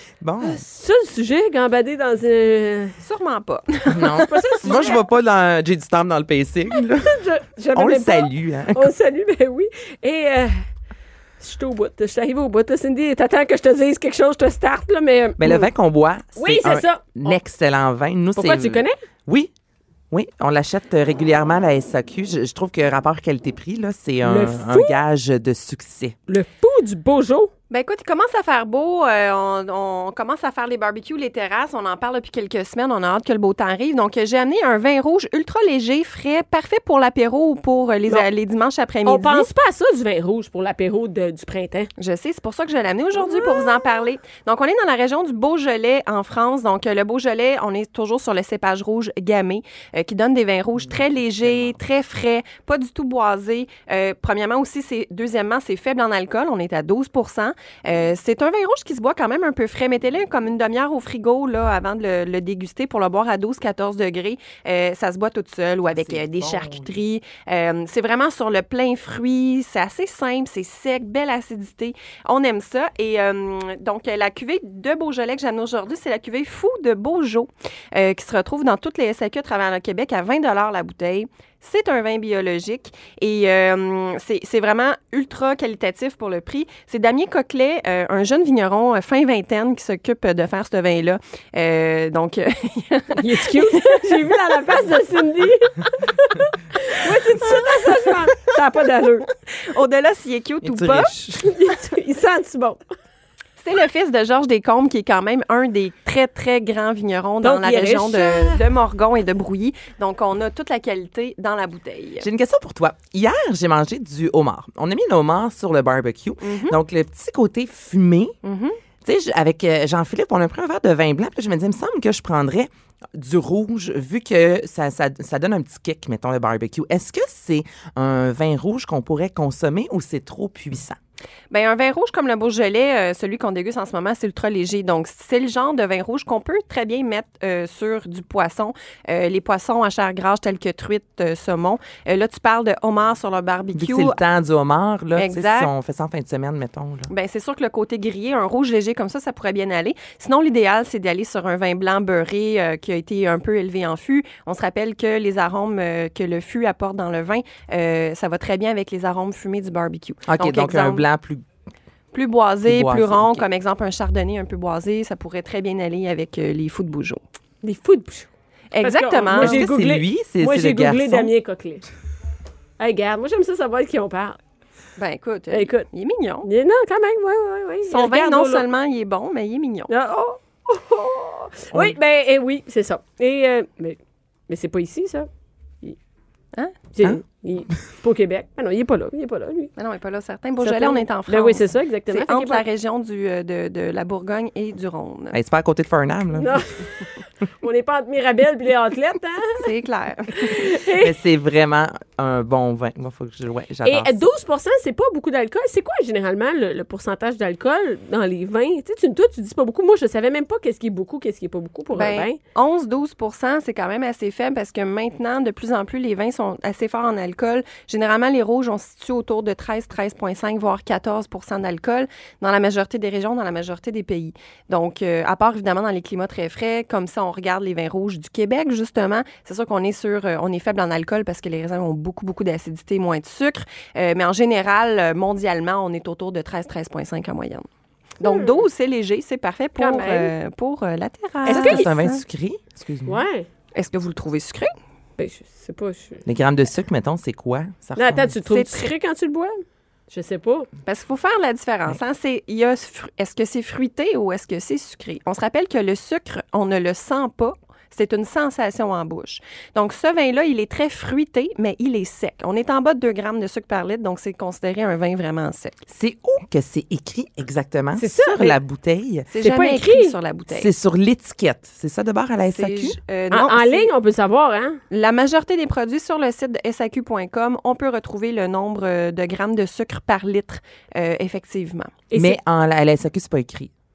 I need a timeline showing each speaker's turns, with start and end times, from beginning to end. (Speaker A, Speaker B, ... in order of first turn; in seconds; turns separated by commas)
Speaker A: 0.2-0.6, Speaker B: 0.4-3.0, Speaker C: 3.0-4.8, Speaker A: 3.9-7.2, Speaker B: 4.2-5.0, Speaker B: 6.9-10.7, Speaker A: 7.7-8.9, Speaker B: 11.4-15.7, Speaker A: 15.4-19.5, Speaker B: 16.4-17.2, Speaker B: 18.4-19.0, Speaker A: 20.1-26.2, Speaker B: 24.2-25.0, Speaker B: 26.3-27.5, Speaker C: 27.7-39.5, Speaker B: 39.0-41.9, Speaker C: 42.0-94.0, Speaker B: 43.3-43.8, Speaker A: 50.9-51.8, Speaker A: 65.9-66.9, Speaker B: 93.2-99.3, Speaker C: 97.0-98.1, Speaker C: 99.6-101.1, Speaker A: 100.6-101.5, Speaker B: 101.4-102.8, Speaker C: 103.6-112.2, Speaker B: 107.4-108.6, Speaker A: 112.2-118.3, Speaker C: 116.4-116.8, Speaker C: 118.4-118.8, Speaker A: 119.0-131.0, Speaker C: 131.5-144.2, Speaker A: 143.7-147.1, Speaker C: 145.2-145.7, Speaker C: 147.1-161.1, Speaker A: 160.3-161.4, Speaker C: 162.1-167.2, Speaker A: 162.6-163.4, Speaker B: 167.6-168.3, Speaker C: 168.7-169.6, Speaker B: 168.8-171.8, Speaker A: 169.3-171.3, Speaker B: 172.8-174.4, Speaker C: 175.0-176.5, Speaker B: 175.5-175.9, Speaker B: 176.4-178.7, Speaker C: 177.9-179.9, Speaker B: 179.9-184.0, Speaker B: 184.5-185.3, Speaker B: 186.9-189.7, Speaker C: 189.8-195.3, Speaker B: 190.6-192.6, Speaker A: 195.3-196.5, Speaker B: 196.3-199.7, Speaker C: 199.6-200.6, Speaker B: 200.3-201.1, Speaker A: 201.0-204.2, Speaker B: 203.8-212.4, Speaker C: 211.9-237.7, Speaker C: 238.2-242.2, Speaker B: 238.2-238.6, Speaker B: 239.8-240.3, Speaker A: 241.4-243.2, Speaker B: 241.5-241.9, Speaker B: 243.1-243.5, Speaker C: 243.7-244.7, Speaker B: 245.2-246.2, Speaker A: 246.2-248.4, Speaker B: 247.9-249.5, Speaker C: 248.5-248.9, Speaker B: 250.1-250.7, Speaker C: 250.8-265.8, Speaker A: 265.9-269.3, Speaker B: 267.9-268.6, Speaker C: 269.3-270.7, Speaker B: 269.4-270.1, Speaker A: 270.5-273.0, Speaker C: 272.5-273.9, Speaker B: 273.3-274.8, Speaker C: 274.9-281.9, Speaker B: 282.1-282.4, Speaker A: 282.1-283.7